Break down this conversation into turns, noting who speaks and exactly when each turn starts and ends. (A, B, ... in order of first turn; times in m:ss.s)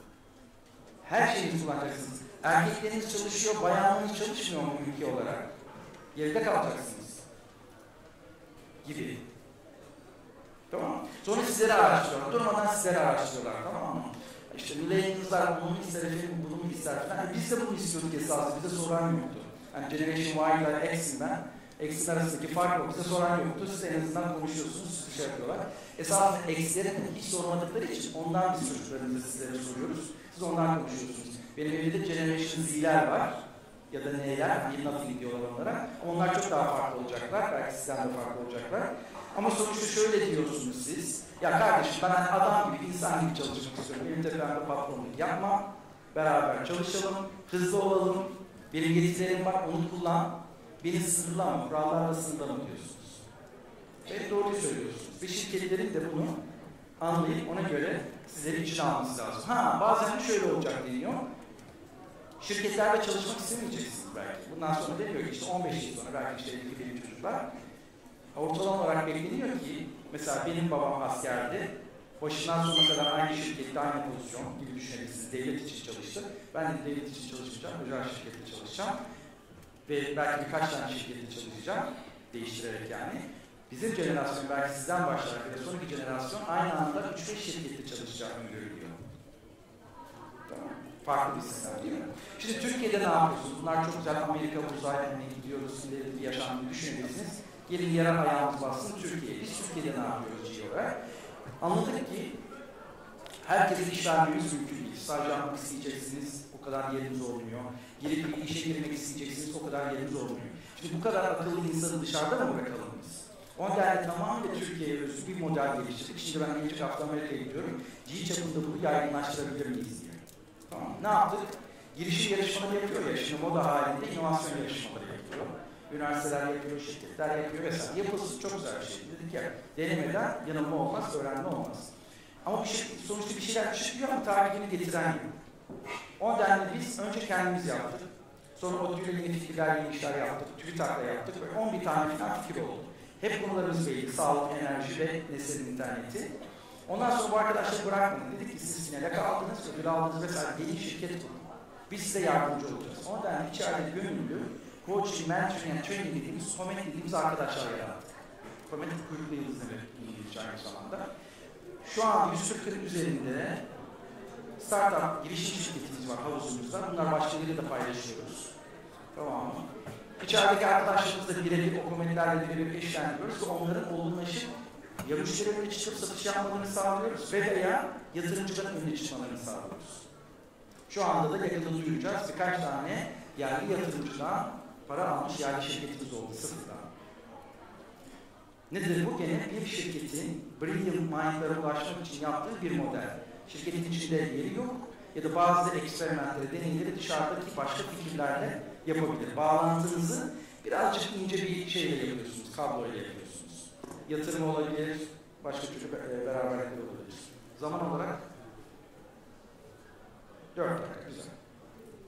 0:01.0-0:05.5 A
0:06.2-0:07.2 A
0:08.8-0:09.2 A
0:10.7-0:33.4 A
0:33.9-0:53.2 A
0:54.1-0:56.4 A
0:57.0-1:01.2 A
1:02.4-1:07.5 A
1:08.4-1:19.0 A
1:19.9-1:29.0 A
1:30.5-1:40.9 A
1:41.6-1:42.3 A
1:43.4-2:11.9 A
2:12.4-2:15.3 A
2:16.2-2:26.3 A
2:26.9-2:38.1 A
2:38.7-2:41.1 A
2:41.8-2:43.6 A
2:44.6-2:48.5 A
2:49.1-2:49.7 A
2:50.2-2:54.5 A
2:55.0-3:00.0 A
3:00.9-3:06.9 A
3:08.7-3:28.2 A
3:30.6-3:31.3 A